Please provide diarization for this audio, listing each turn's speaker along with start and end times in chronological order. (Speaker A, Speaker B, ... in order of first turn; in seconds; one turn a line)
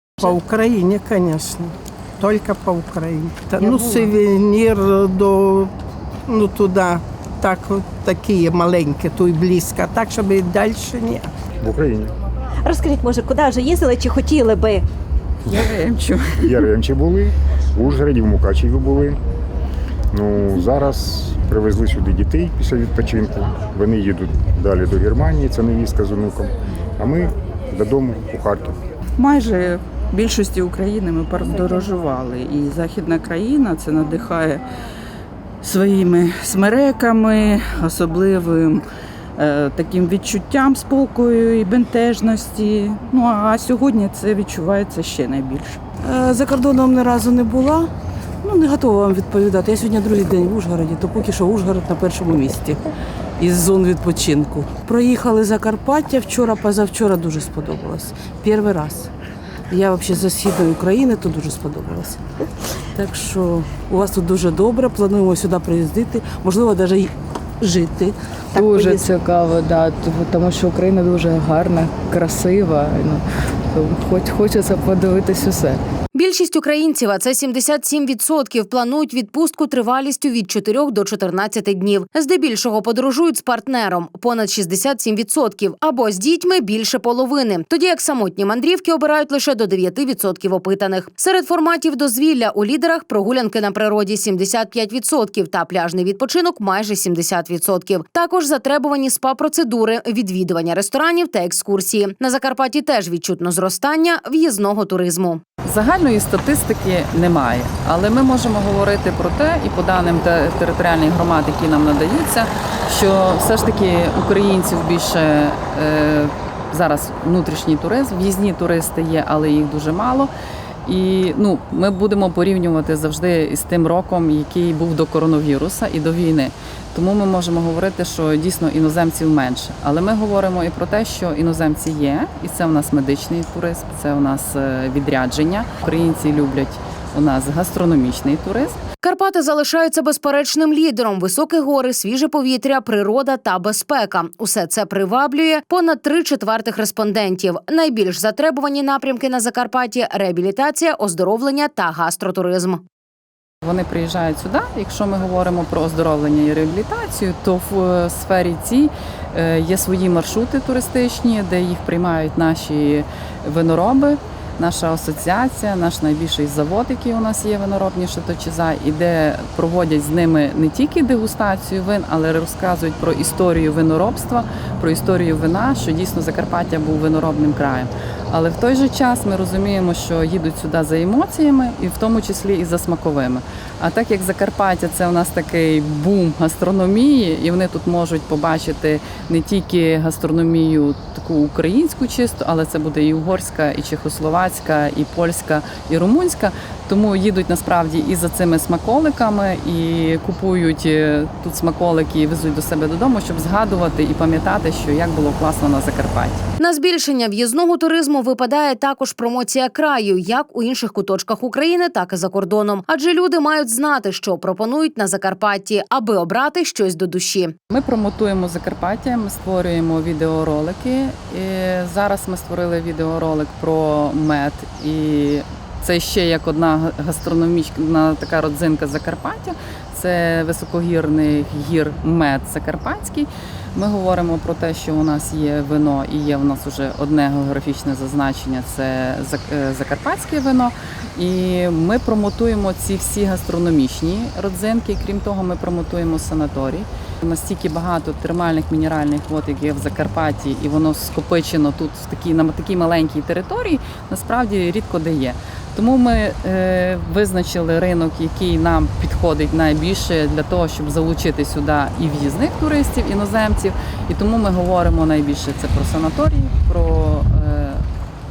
Speaker A: 0.2-5.7
Speaker B: 3.7-4.0
Speaker A: 6.3-11.3
Speaker C: 11.6-12.1
Speaker B: 12.6-14.8
Speaker C: 16.4-19.2
Speaker C: 20.1-28.8
Speaker D: 29.2-34.6
Speaker D: 35.6-38.8
Speaker D: 39.4-45.7
Speaker E: 46.0-47.9
Speaker E: 48.4-52.8
Speaker E: 53.4-59.1
Speaker E: 59.7-62.2
Speaker E: 62.9-69.1
Speaker F: 68.5-75.8
Speaker G: 76.1-105.4
Speaker H: 105.7-120.3
Speaker H: 120.9-138.8
Speaker G: 139.0-152.8
Speaker H: 153.6-206.4
Speaker G: 206.6-217.6
Speaker H: 217.7-267.8